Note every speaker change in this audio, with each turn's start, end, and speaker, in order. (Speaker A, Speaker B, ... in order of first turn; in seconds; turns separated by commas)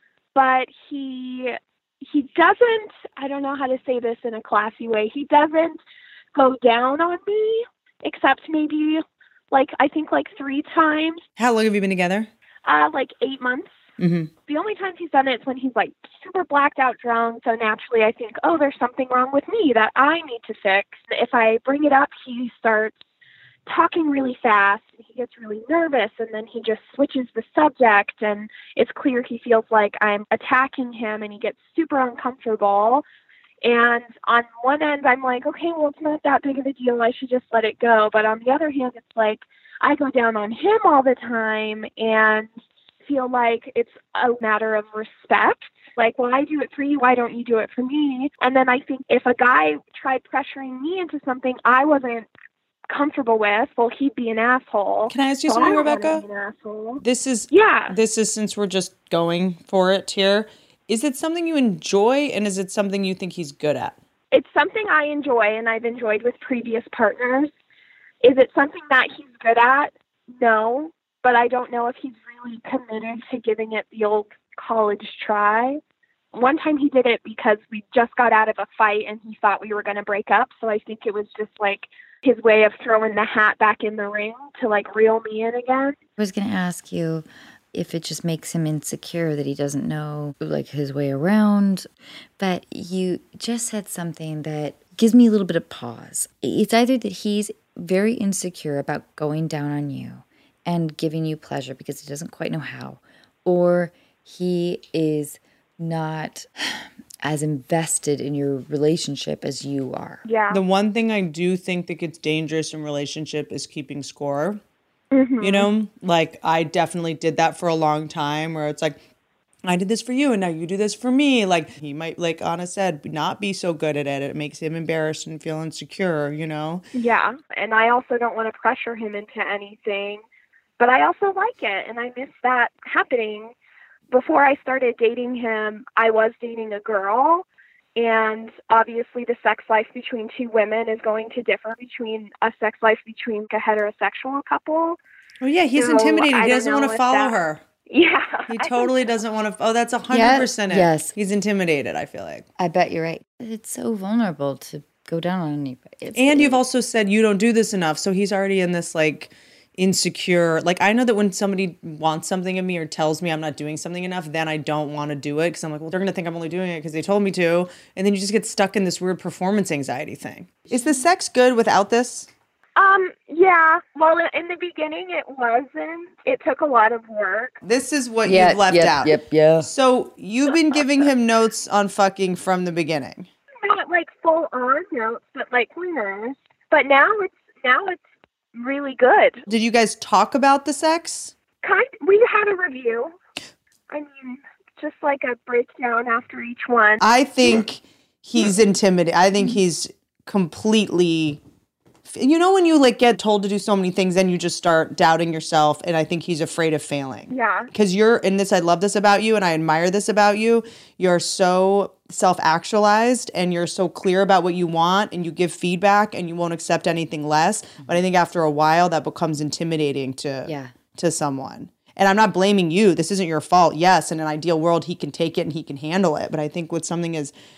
Speaker A: 0.3-5.8, Speaker A: 6.3-11.2, Speaker B: 11.4-12.3, Speaker A: 12.7-13.7, Speaker B: 14.0-14.3, Speaker A: 14.5-23.0, Speaker A: 23.7-33.0, Speaker A: 33.6-42.5, Speaker A: 43.0-52.3, Speaker A: 52.9-58.0, Speaker B: 55.1-56.2, Speaker B: 57.0-64.0, Speaker A: 64.3-67.5, Speaker A: 68.2-75.8, Speaker A: 76.3-86.0, Speaker C: 86.2-91.9, Speaker C: 92.4-110.2, Speaker A: 110.2-110.6, Speaker B: 110.5-114.6, Speaker A: 115.1-115.7, Speaker B: 115.4-119.0, Speaker B: 119.6-126.8, Speaker A: 126.9-130.2, Speaker A: 130.8-133.5, Speaker A: 134.1-145.0, Speaker B: 145.4-147.6, Speaker A: 145.8-147.3, Speaker A: 147.9-149.0, Speaker B: 148.5-152.5, Speaker C: 150.1-151.1, Speaker C: 152.6-156.6, Speaker B: 156.2-172.3, Speaker A: 172.8-177.6, Speaker B: 177.6-183.3, Speaker C: 178.2-179.7, Speaker A: 183.6-188.0, Speaker A: 188.5-189.4, Speaker B: 189.5-191.3, Speaker A: 191.6-193.2, Speaker A: 193.9-197.0, Speaker B: 197.0-201.4, Speaker B: 202.1-227.3, Speaker A: 207.3-207.7, Speaker C: 220.4-220.8